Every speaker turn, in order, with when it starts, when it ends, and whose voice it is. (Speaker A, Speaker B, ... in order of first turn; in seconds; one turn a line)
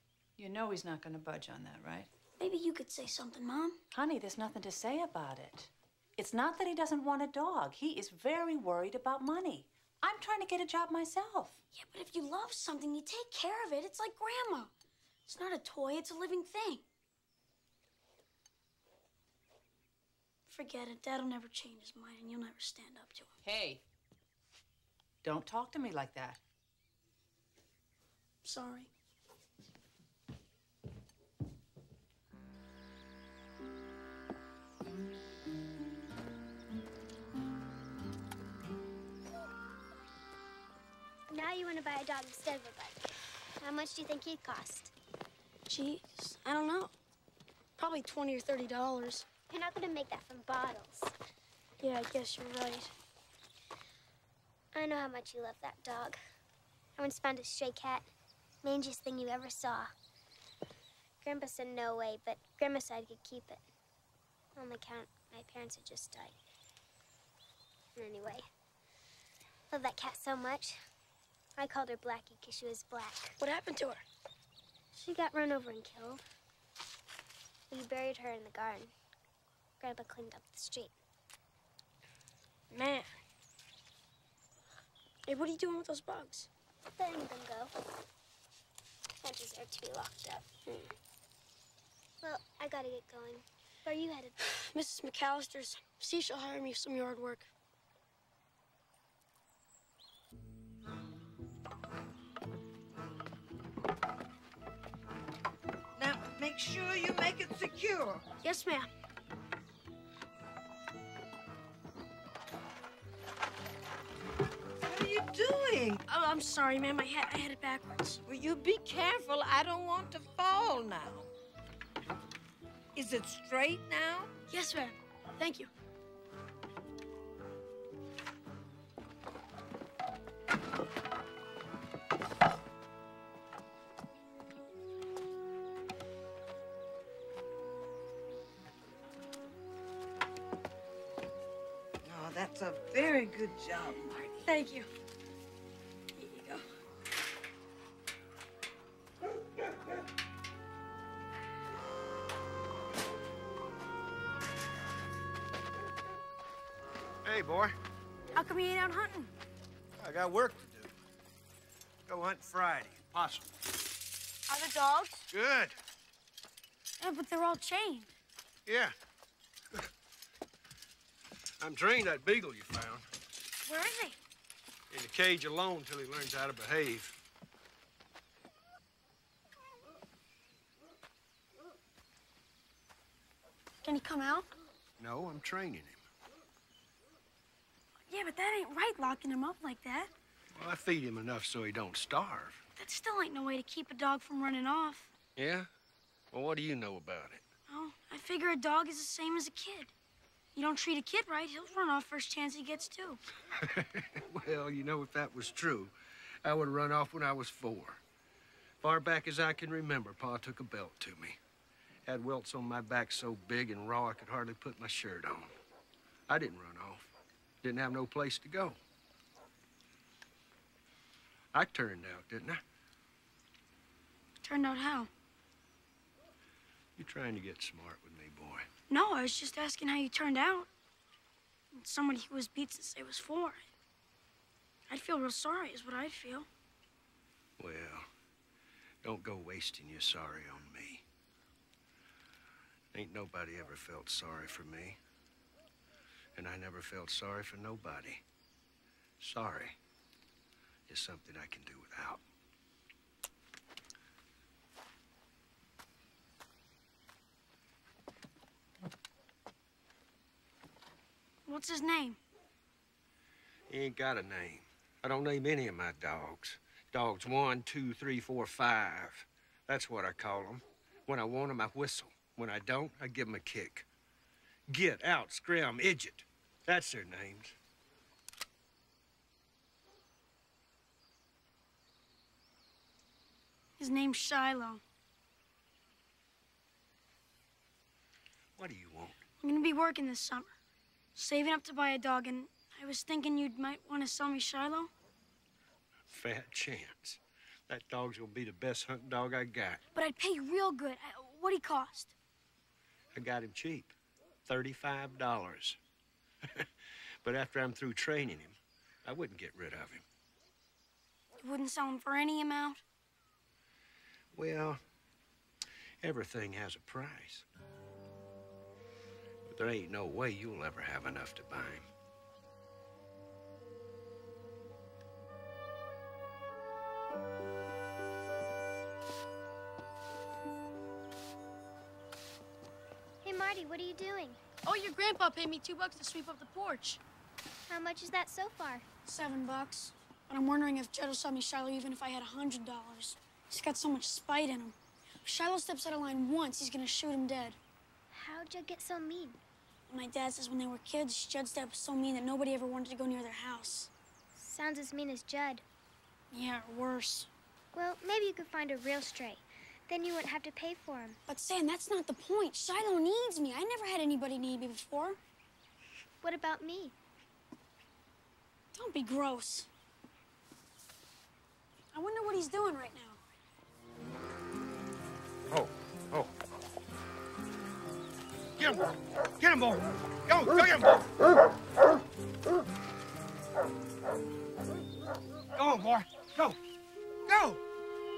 Speaker A: 0.4-2.1
Speaker B: 2.4-3.8
Speaker A: 3.9-11.6
Speaker B: 11.7-14.7
Speaker B: 15.3-16.8
Speaker B: 20.5-23.3
Speaker A: 23.4-23.8
Speaker A: 25.2-26.4
Speaker B: 28.4-28.9
Speaker C: 41.3-44.9
Speaker B: 45.7-46.9
Speaker B: 47.8-49.3
Speaker C: 49.5-51.1
Speaker B: 51.8-52.9
Speaker C: 54.7-56.2
Speaker C: 57.0-58.1
Speaker C: 58.6-59.9
Speaker C: 61.2-63.6
Speaker C: 64.5-66.3
Speaker C: 68.0-68.5
Speaker C: 69.7-70.8
Speaker C: 71.6-73.4
Speaker B: 73.4-74.0
Speaker C: 74.9-76.2
Speaker C: 77.7-78.9
Speaker C: 79.8-80.9
Speaker B: 82.7-83.1
Speaker B: 85.3-86.5
Speaker C: 87.0-87.7
Speaker C: 89.2-90.5
Speaker C: 92.2-94.3
Speaker B: 94.6-97.5
Speaker D: 106.0-108.2
Speaker B: 108.4-108.9
Speaker D: 114.8-116.0
Speaker B: 116.1-118.2
Speaker D: 118.2-121.3
Speaker D: 123.0-124.3
Speaker B: 124.5-125.7
Speaker D: 142.0-144.1
Speaker B: 144.0-144.9
Speaker B: 146.1-146.6
Speaker E: 157.2-157.8
Speaker B: 158.3-159.3
Speaker E: 160.0-161.0
Speaker E: 162.1-163.5
Speaker B: 164.5-165.2
Speaker E: 165.3-165.7
Speaker B: 167.0-168.1
Speaker E: 168.7-168.9
Speaker E: 171.6-173.0
Speaker B: 173.7-174.2
Speaker E: 174.9-177.2
Speaker B: 183.8-184.5
Speaker E: 185.0-186.0
Speaker B: 188.1-190.1
Speaker E: 190.5-192.6
Speaker B: 192.8-195.1
Speaker E: 195.3-195.7
Speaker E: 196.3-197.4
Speaker B: 197.7-199.9
Speaker B: 200.5-203.2
Speaker E: 203.6-205.9
Speaker E: 206.4-208.0
Speaker E: 208.8-211.4
Speaker E: 212.1-215.5
Speaker E: 216.3-217.1
Speaker E: 217.6-218.8
Speaker E: 221.5-222.6
Speaker B: 224.4-225.1
Speaker E: 226.9-228.7
Speaker B: 228.9-230.7
Speaker B: 231.7-233.6
Speaker B: 234.9-236.5
Speaker E: 237.6-238.1
Speaker E: 239.0-241.0
Speaker E: 242.9-245.0
Speaker E: 246.3-248.2
Speaker E: 249.2-249.8
Speaker E: 250.9-252.2
Speaker B: 261.5-262.2
Speaker E: 263.7-273.9
Speaker E: 274.7-277.5
Speaker B: 283.8-284.8
Speaker E: 288.6-289.2
Speaker B: 289.4-290.5
Speaker B: 291.1-294.9
Speaker E: 296.1-299.8
Speaker B: 299.9-302.1
Speaker E: 303.1-303.9
Speaker E: 304.4-305.8
Speaker E: 306.4-306.7
Speaker E: 307.2-310.0
Speaker B: 311.4-312.8
Speaker E: 314.3-314.8
Speaker E: 316.0-317.4
Speaker E: 319.4-321.9
Speaker C: 333.2-334.4
Speaker B: 334.6-337.0
Speaker C: 337.7-338.8
Speaker B: 339.1-347.6
Speaker C: 348.1-349.4
Speaker B: 349.9-353.9
Speaker C: 354.3-355.6
Speaker B: 356.3-357.3
Speaker C: 357.7-361.2
Speaker B: 361.3-365.2
Speaker C: 366.2-366.9
Speaker B: 368.7-369.7
Speaker B: 371.9-373.2
Speaker E: 375.5-376.3
Speaker E: 378.6-378.9
Speaker E: 379.4-381.0
Speaker E: 385.6-386.6
Speaker E: 387.3-387.6